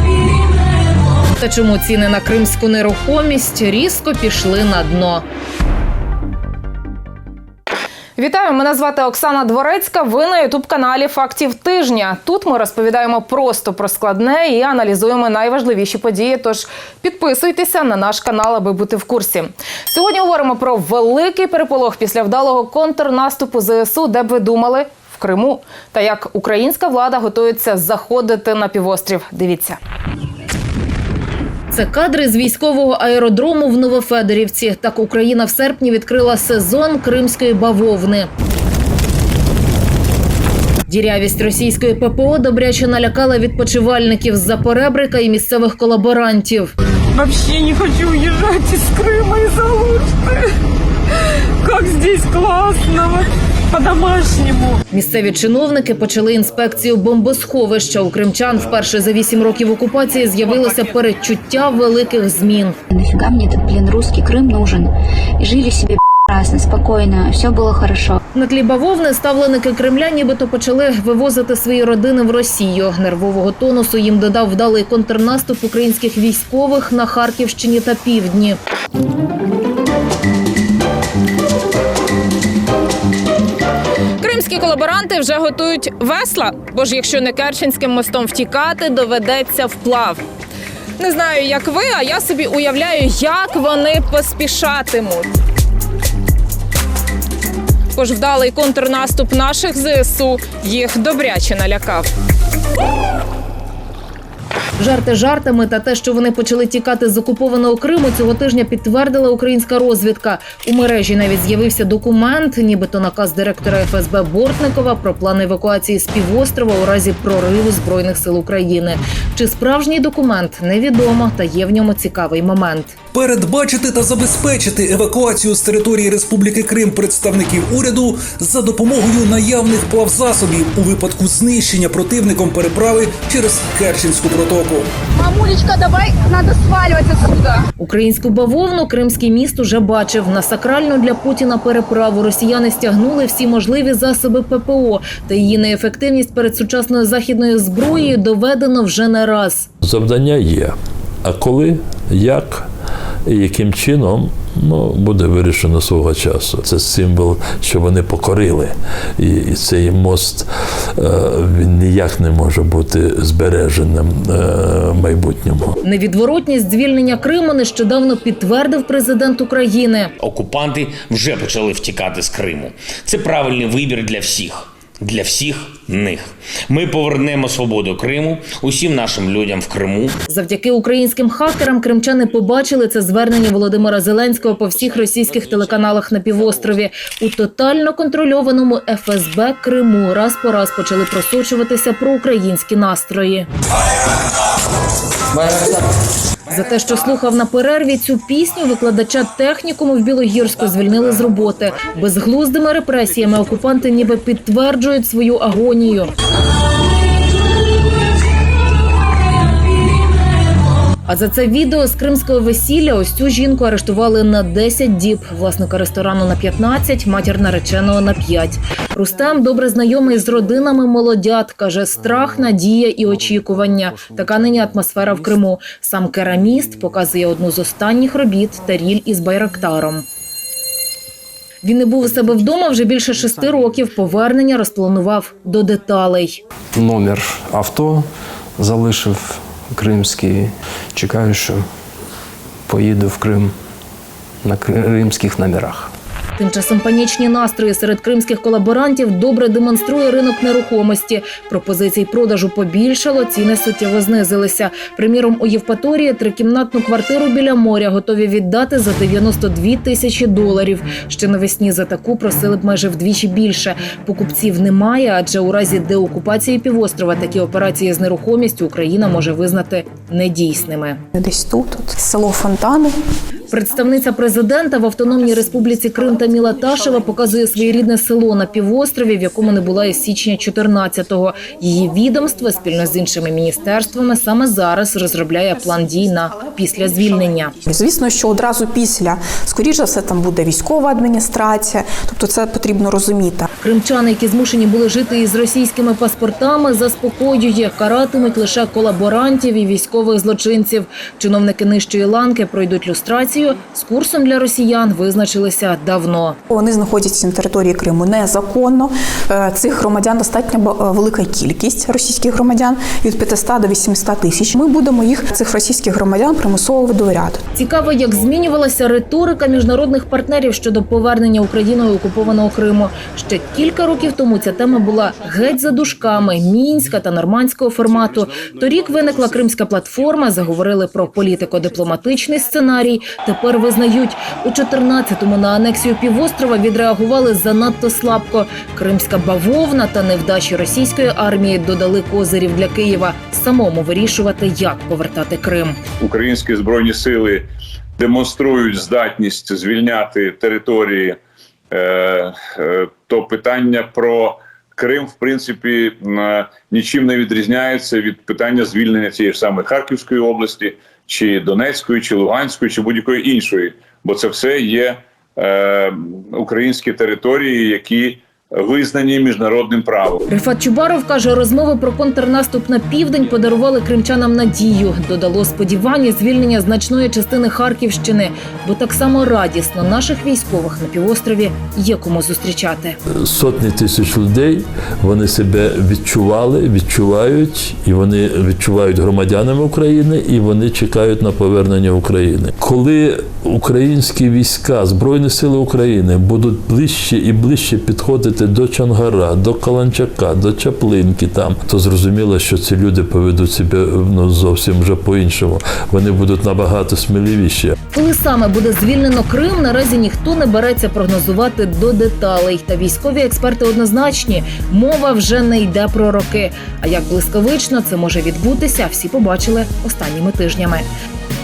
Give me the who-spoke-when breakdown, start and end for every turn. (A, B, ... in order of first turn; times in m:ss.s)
0:01.4-0:05.2 A
0:08.2-0:29.8 A
0:31.7-0:38.3 A
0:40.9-0:46.7 A
0:47.1-0:50.5 B
0:51.6-0:54.8 B
0:54.9-1:02.8 A
1:02.9-1:08.2 C
1:08.4-1:18.6 A
1:24.2-1:30.2 A
1:31.0-1:35.3 A
1:38.0-1:42.1 A
1:44.8-2:03.0 A
2:03.1-2:14.9 D
2:15.2-2:17.6 E
2:17.8-2:29.7 A
2:29.8-2:32.7 F
2:33.3-2:45.8 F
2:45.8-2:50.1 A
2:50.2-3:00.2 G
3:00.3-3:13.5 A
3:16.5-3:26.1 A
3:31.1-3:50.0 A
3:51.6-3:56.4 A
3:56.8-3:58.1 H
3:58.6-4:01.6 H
4:02.7-4:03.5 H
4:04.4-4:05.9 H
4:06.4-4:31.0 A
4:31.1-4:32.9 I
4:33.5-4:47.6 A
4:47.7-4:53.5 I
4:53.6-5:06.4 A
5:06.5-5:17.4 I
5:17.6-5:45.8 A
5:46.0-5:47.5 J
5:48.0-5:51.2 J
5:51.7-6:10.2 J
6:10.3-6:23.0 A
6:23.2-6:47.8 F
6:47.9-7:00.9 A